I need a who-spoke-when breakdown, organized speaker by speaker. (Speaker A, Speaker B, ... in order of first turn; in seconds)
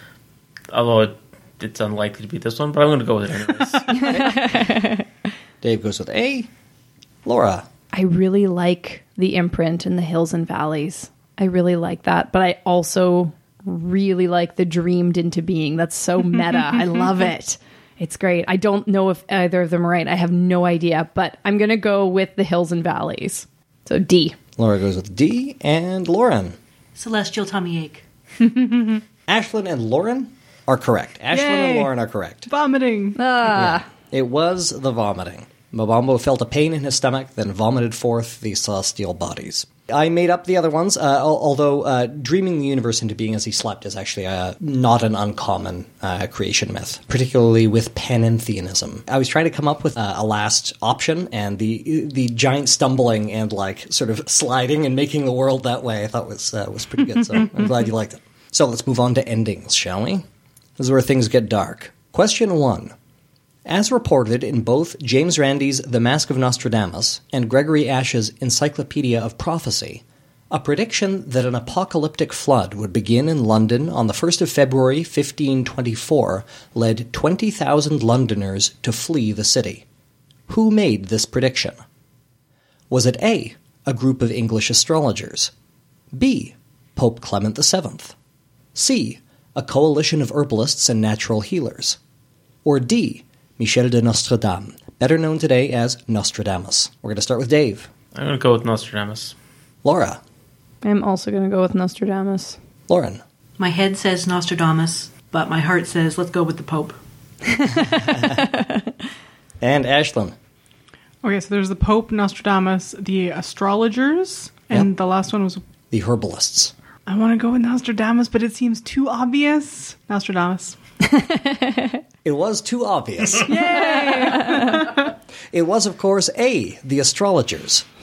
Speaker A: 0.7-4.2, 98.1-99.3
Speaker B: 4.0-5.0, 7.9-24.4, 33.2-33.9, 100.8-102.6, 107.6-108.9, 121.1-122.0, 123.7-124.8
Speaker C: 4.1-4.4, 5.6-6.5, 7.2-7.7, 24.6-26.6, 29.3-32.5, 33.5-60.2, 60.8-62.9, 63.7-79.8, 80.5-81.8, 82.9-85.5, 86.1-88.2, 88.8-92.0, 92.7-97.9, 99.8-100.2, 102.9-103.2, 107.9-108.5, 109.6-110.3, 115.9-116.7, 122.2-123.7, 125.5-127.9
Speaker D: 27.0-28.1, 103.6-107.0
Speaker E: 31.3-31.9, 32.5-33.2, 111.2-115.6, 117.1-120.8, 123.5-125.0